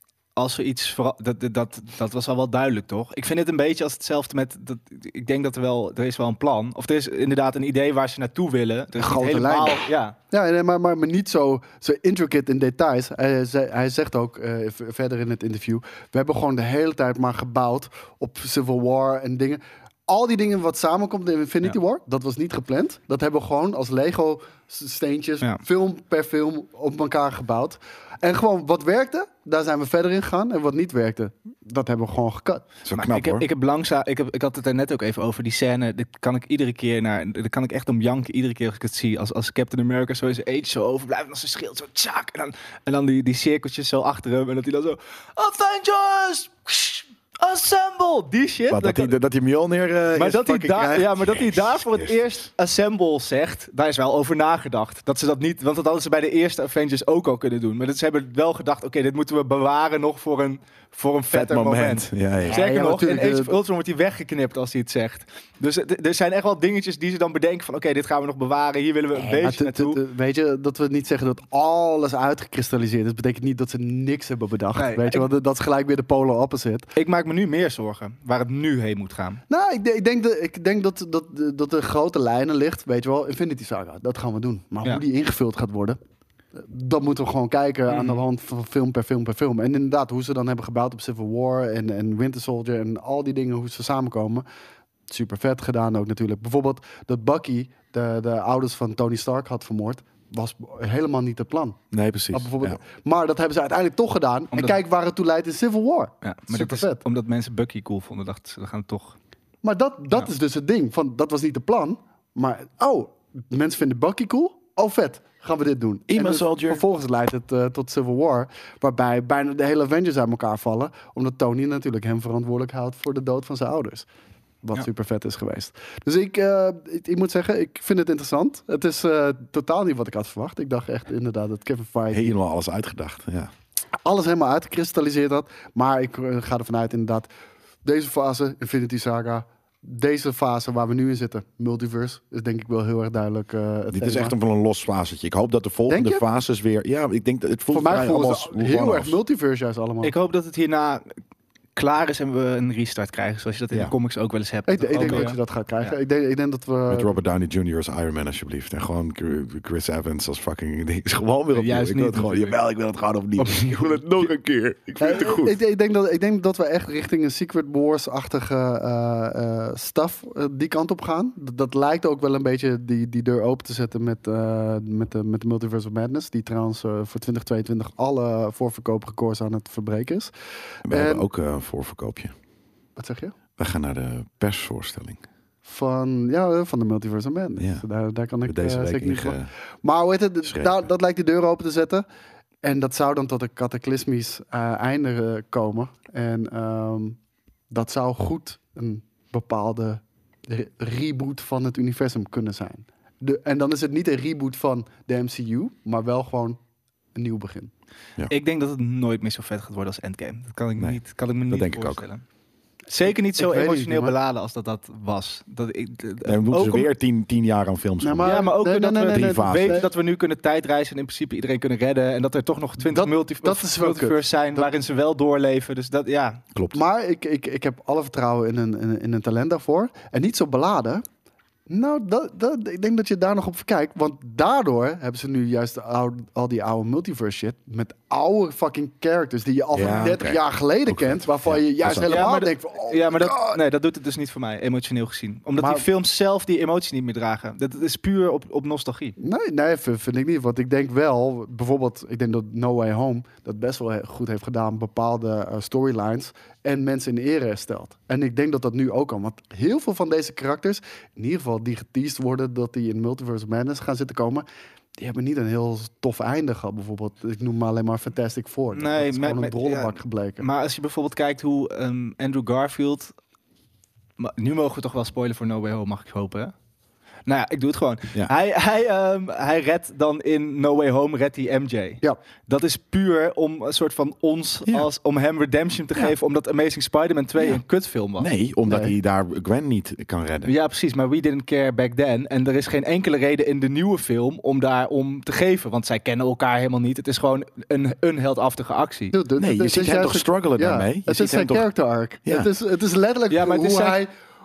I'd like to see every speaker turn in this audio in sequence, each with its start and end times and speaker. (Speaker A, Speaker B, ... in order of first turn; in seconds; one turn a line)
Speaker A: 0.4-10.2
Speaker B: 9.0-32.7
Speaker C: 32.8-33.5
Speaker A: 32.9-49.1
Speaker C: 48.7-52.2
Speaker A: 50.1-70.0
Speaker B: 50.7-51.0
Speaker C: 61.3-62.6
Speaker B: 62.5-63.5
Speaker B: 69.2-76.9
Speaker A: 74.8-75.2
Speaker A: 77.0-79.4
Speaker B: 79.5-86.0
Speaker B: 86.5-94.5
Speaker A: 87.9-88.2
Speaker B: 95.1-107.0
Speaker C: 101.9-102.8
Speaker A: 104.5-104.8
Speaker A: 106.2-109.2
Speaker B: 109.6-124.1
Speaker C: 116.1-116.8
Speaker B: 124.6-132.3
Speaker C: 132.1-133.5
Speaker B: 134.1-137.3
Speaker B: 137.8-144.3
Speaker C: 143.9-149.2
Speaker B: 145.9-146.2
Speaker B: 147.7-150.1
Speaker A: 150.0-151.2
Speaker A: 151.8-155.9
Speaker B: 154.7-157.1
Speaker C: 156.9-165.6
Speaker A: 161.5-162.6
Speaker B: 165.0-180.3
Speaker C: 180.9-182.3
Speaker B: 180.9-181.3
Speaker B: 183.0-183.3
Speaker C: 183.6-185.2
Speaker B: 185.7-192.1
Speaker C: 187.6-187.8
Speaker C: 188.4-189.5
Speaker C: 190.4-190.7
Speaker B: 192.6-197.2
Speaker B: 197.7-206.6
Speaker B: 207.2-207.7
Speaker A: 208.3-212.2
Speaker C: 210.8-212.0
Speaker A: 212.9-216.9
Speaker B: 213.1-214.2
Speaker C: 216.2-218.5
Speaker B: 218.0-219.9
Speaker A: 218.2-226.4
Speaker C: 219.1-219.9
Speaker B: 222.8-224.7
Speaker C: 226.5-226.8
Speaker B: 226.7-231.0
Speaker B: 231.7-243.6
Speaker C: 239.7-242.2
Speaker A: 242.1-249.2
Speaker B: 245.6-245.9
Speaker B: 249.2-264.4
Speaker B: 265.0-270.5
Speaker A: 268.7-273.1
Speaker A: 274.2-276.5
Speaker A: 277.3-288.3
Speaker C: 288.2-290.5
Speaker B: 288.7-288.9
Speaker A: 290.4-299.1
Speaker B: 299.1-304.1
Speaker C: 299.4-301.7
Speaker A: 303.3-304.0